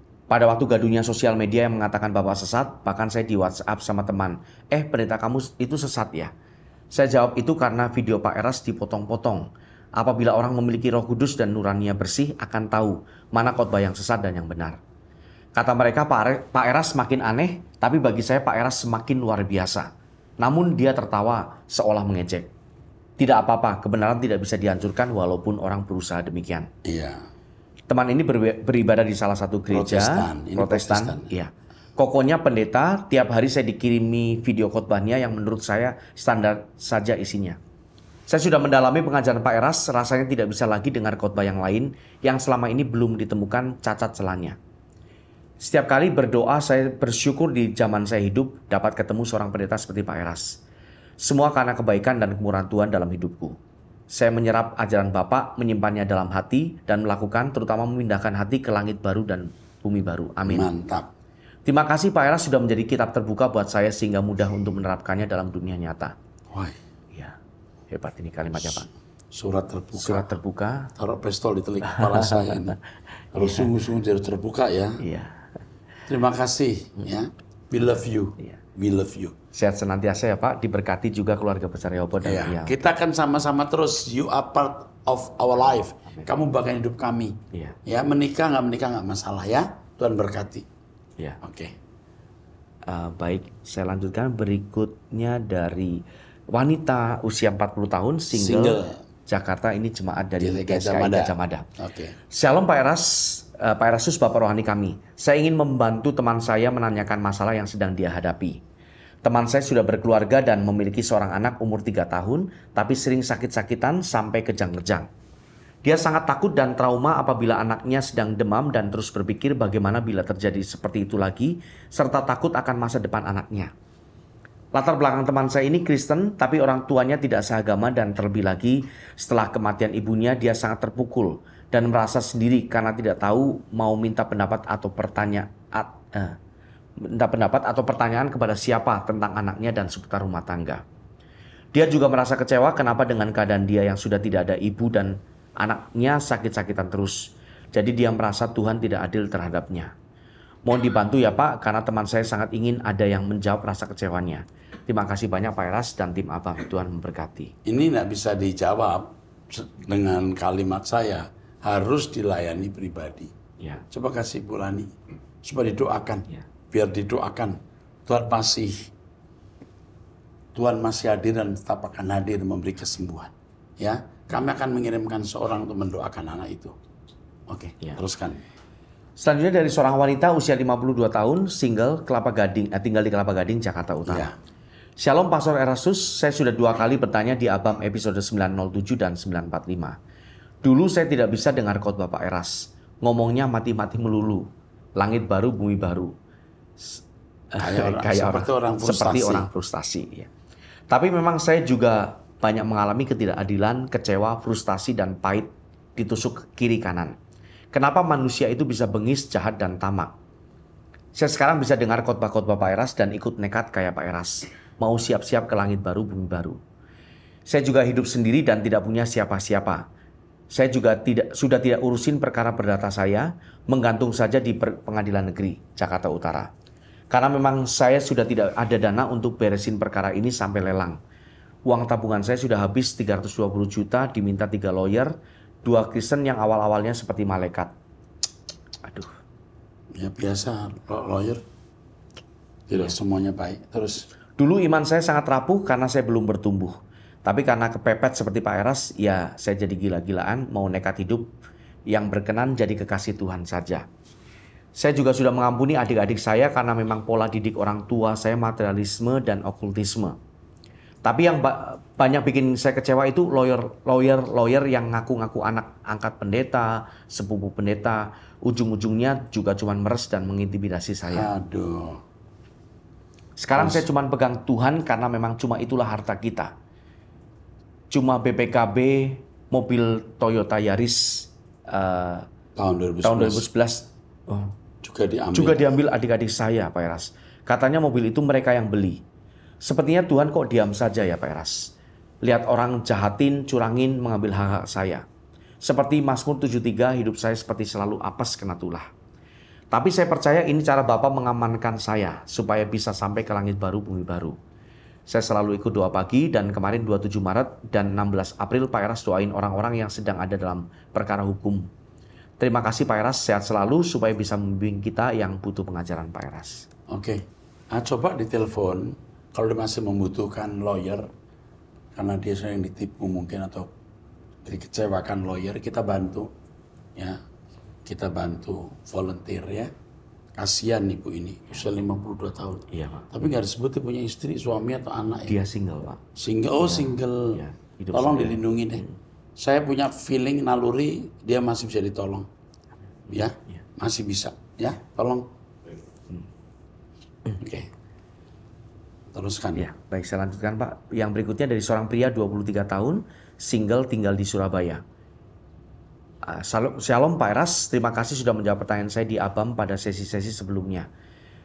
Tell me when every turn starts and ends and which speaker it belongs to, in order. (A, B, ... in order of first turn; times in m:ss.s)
0:00.3-0:06.3 A
0:06.9-0:09.5 A
0:10.0-0:14.8 A
0:15.6-0:19.9 A
0:20.4-0:22.5 A
0:23.2-0:26.7 A
0:26.8-0:27.3 B
0:27.9-0:37.6 A
0:29.7-0:31.3 B
0:38.3-0:44.6 A
0:45.6-0:50.6 A
0:51.2-0:53.6 A
0:54.1-1:00.7 A
1:00.5-1:01.1 B
1:01.7-1:06.1 A
1:06.5-1:06.8 B
1:07.9-1:08.9 A
1:09.3-1:10.3 B
1:10.0-1:10.9 A
1:11.0-1:12.8 B
1:11.8-1:12.8 A
1:13.3-1:15.0 B
1:13.4-1:13.7 A
1:15.0-1:15.4 A
1:16.1-1:19.4 B
1:19.5-1:22.8 A
1:22.2-1:30.7 B
1:31.4-1:31.8 B
1:32.9-1:41.7 A
1:38.3-1:39.0 B
1:40.4-1:42.2 B
1:42.3-1:48.6 A
1:49.2-1:55.1 A
1:55.8-2:03.7 A
2:04.8-2:16.4 A
2:17.0-2:20.8 A
2:21.7-2:29.9 A
2:30.7-2:37.5 A
2:37.6-2:43.3 B
2:43.9-2:44.9 B
2:45.4-2:48.9 B
2:50.6-2:56.8 B
2:57.5-2:58.4 B
2:59.2-3:04.3 A
3:04.1-3:04.3 B
3:05.0-3:10.0 A
3:10.6-3:14.4 A
3:15.0-3:16.1 A
3:17.5-3:20.3 A
3:17.6-3:19.5 B
3:20.9-3:27.2 A
3:27.7-3:30.1 A
3:31.2-3:36.6 A
3:37.5-3:39.8 A
3:40.5-3:46.5 A
3:47.1-3:51.0 A
3:51.7-3:57.7 A
3:58.8-3:59.1 A
4:00.0-4:01.4 B
4:02.7-4:04.1 B
4:04.4-4:06.7 A
4:07.2-4:11.3 A
4:11.9-4:13.8 A
4:14.8-4:20.2 A
4:21.0-4:31.3 A
4:31.1-4:32.0 B
4:33.4-4:36.5 A
4:33.6-4:33.9 B
4:37.9-4:42.3 A
4:42.6-4:43.4 B
4:43.0-4:44.5 A
4:44.8-4:45.7 B
4:45.3-4:49.0 A
4:49.6-4:51.7 A
4:52.2-4:55.0 A
4:55.6-4:58.9 A
4:59.7-5:04.4 A
5:05.1-5:11.7 A
5:12.4-5:16.7 A
5:16.9-5:21.1 B
5:22.0-5:23.7 B
5:24.4-5:26.3 B
5:27.0-5:27.2 B
5:27.8-5:29.7 B
5:30.4-5:35.4 B
5:32.7-5:33.1 A
5:35.3-5:36.0 A
5:36.2-5:37.4 B
5:36.6-5:39.0 A
5:37.9-5:38.8 B
5:39.4-5:42.3 B
5:43.1-5:43.6 A
5:43.1-5:45.3 B
5:47.4-5:47.7 B
5:49.1-5:49.7 B
5:49.6-5:54.8 A
5:56.2-6:00.9 A